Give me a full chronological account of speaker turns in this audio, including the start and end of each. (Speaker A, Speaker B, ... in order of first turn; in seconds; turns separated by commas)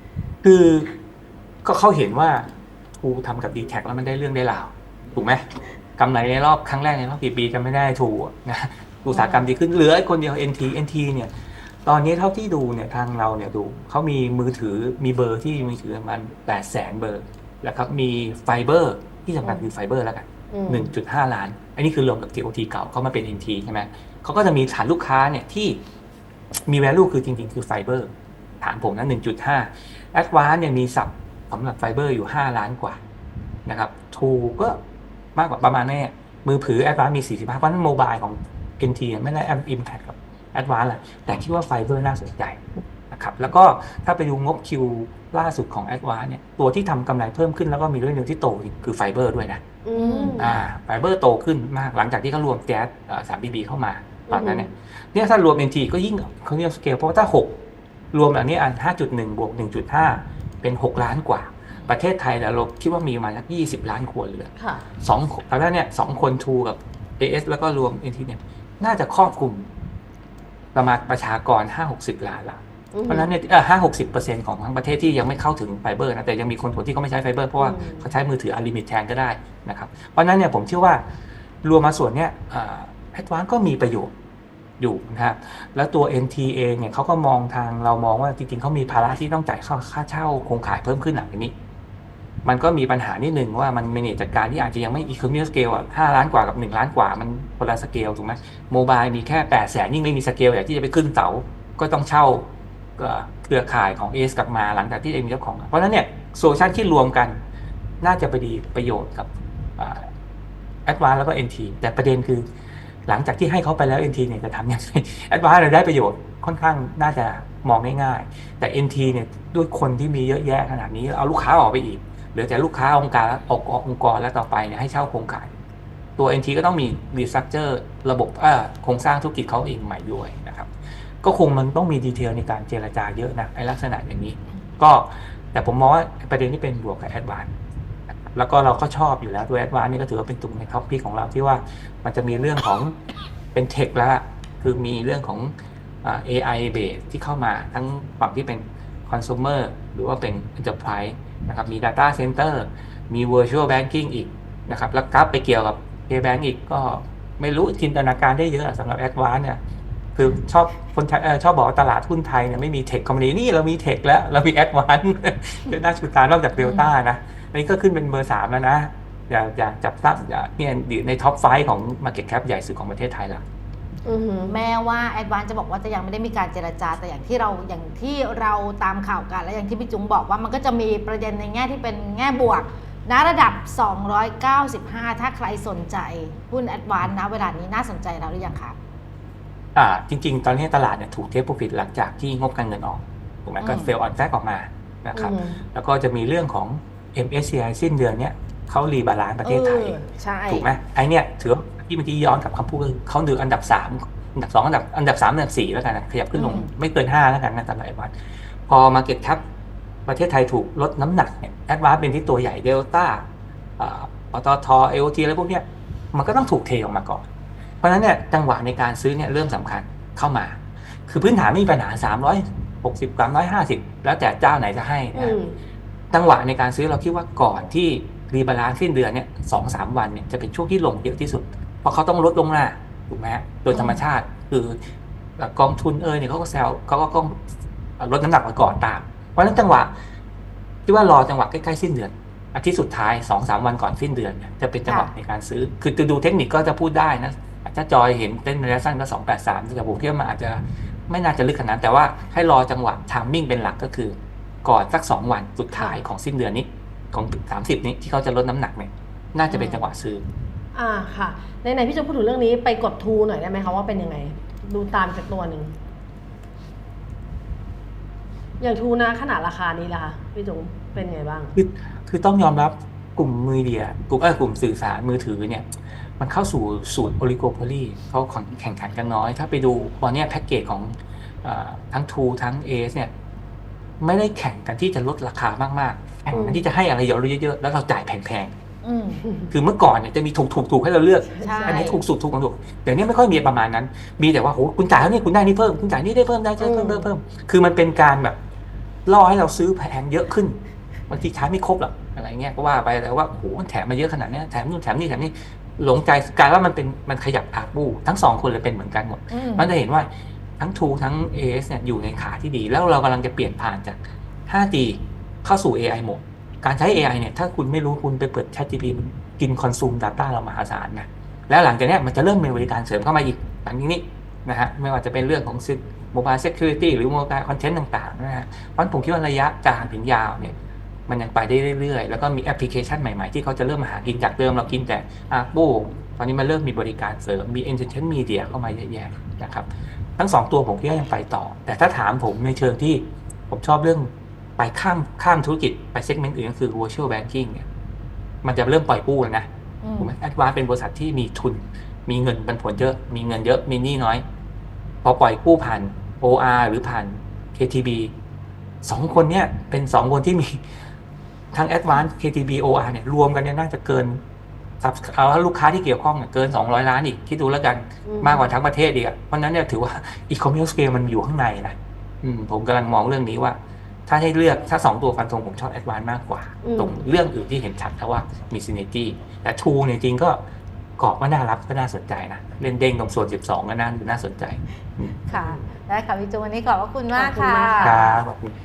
Speaker A: 0.4-0.9, Speaker A: 1.6-5.4, Speaker A: 6.0-11.3, Speaker B: 9.1-9.4, Speaker A: 11.8-25.8, Speaker B: 20.5-20.9, Speaker A: 26.7-33.0, Speaker A: 33.7-34.8, Speaker A: 35.3-49.6, Speaker B: 49.8-50.5, Speaker C: 49.9-50.5, Speaker A: 50.4-57.5, Speaker B: 54.3-54.7, Speaker A: 58.1-69.7, Speaker B: 64.5-64.8, Speaker A: 70.7-81.0, Speaker B: 72.9-73.2, Speaker B: 77.6-78.1, Speaker A: 81.6-84.1, Speaker A: 84.8-91.5, Speaker A: 92.4-107.4, Speaker A: 108.0-110.1, Speaker A: 110.8-112.5, Speaker A: 113.0-125.5, Speaker A: 126.2-130.7, Speaker A: 131.2-137.5, Speaker A: 138.3-142.9, Speaker A: 143.5-159.6, Speaker A: 160.1-173.4, Speaker C: 166.6-166.9, Speaker B: 174.0-174.5, Speaker C: 174.5-188.8, Speaker A: 189.7-200.0, Speaker C: 193.6-193.9, Speaker B: 195.1-195.6, Speaker C: 199.4-200.7, Speaker A: 200.5-208.1, Speaker C: 206.3-206.7, Speaker A: 208.7-209.4, Speaker A: 210.1-213.3, Speaker A: 213.8-217.2, Speaker A: 217.8-225.4, Speaker B: 225.1-225.5, Speaker A: 226.1-234.8, Speaker C: 233.7-234.0, Speaker A: 235.4-237.3, Speaker A: 238.0-239.9, Speaker A: 240.9-260.2, Speaker C: 244.8-245.1, Speaker C: 255.7-256.0, Speaker C: 259.5-259.9, Speaker B: 260.7-265.7, Speaker B: 268.6-271.6, Speaker A: 271.5-275.7, Speaker A: 276.2-283.1, Speaker A: 284.0-288.5, Speaker B: 286.3-286.6, Speaker C: 288.8-289.2, Speaker B: 289.2-289.5, Speaker A: 289.5-298.4, Speaker B: 291.4-291.8, Speaker C: 291.4-292.0, Speaker B: 296.6-297.1, Speaker A: 299.1-300.6, Speaker A: 301.1-330.5, Speaker C: 309.3-309.7, Speaker A: 331.1-347.6, Speaker A: 348.4-349.5, Speaker C: 349.8-350.1, Speaker A: 350.0-354.2, Speaker A: 355.0-358.1, Speaker A: 358.8-360.6, Speaker A: 361.5-364.2, Speaker A: 364.8-380.4, Speaker B: 368.1-368.5, Speaker B: 376.6-377.0, Speaker A: 381.0-385.2, Speaker C: 385.3-388.0, Speaker B: 387.2-387.9, Speaker A: 387.8-388.5